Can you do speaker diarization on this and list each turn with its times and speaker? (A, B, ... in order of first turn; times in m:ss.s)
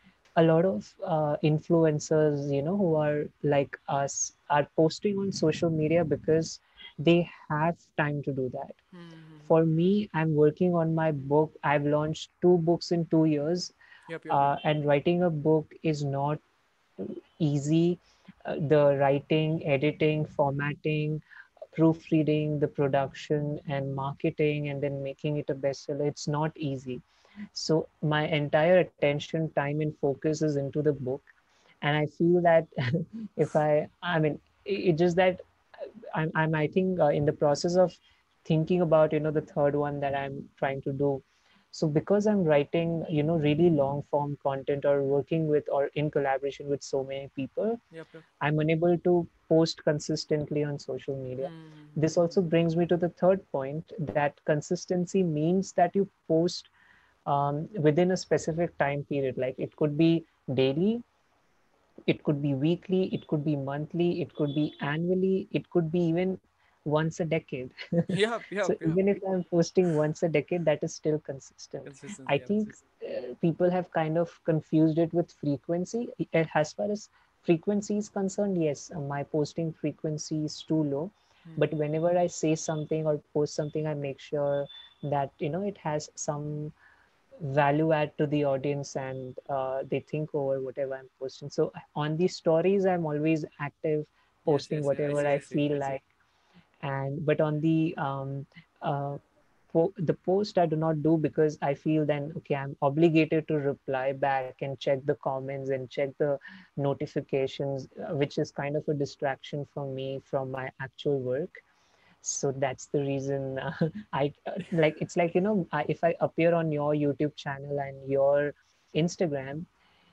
0:00.4-0:08.8 A
0:08.9-0:09.5 B
0:09.5-0:13.7 A
0:14.1-0:14.6 B
0:14.3-0:16.4 A
0:17.0-0:21.2 A
0:21.7-0:31.3 A
0:31.8-0:47.8 A
0:47.9-0:48.2 B
0:48.4-0:56.7 A
0:51.4-0:52.4 B
0:57.3-1:01.0 A
1:02.1-1:08.1 A
1:08.1-1:09.0 B
1:08.7-1:26.7 A
1:11.8-1:12.8 B
1:27.4-1:36.0 A
1:34.5-1:36.0 B
1:36.8-1:39.2 A
1:39.7-1:51.6 A
1:52.2-1:59.7 A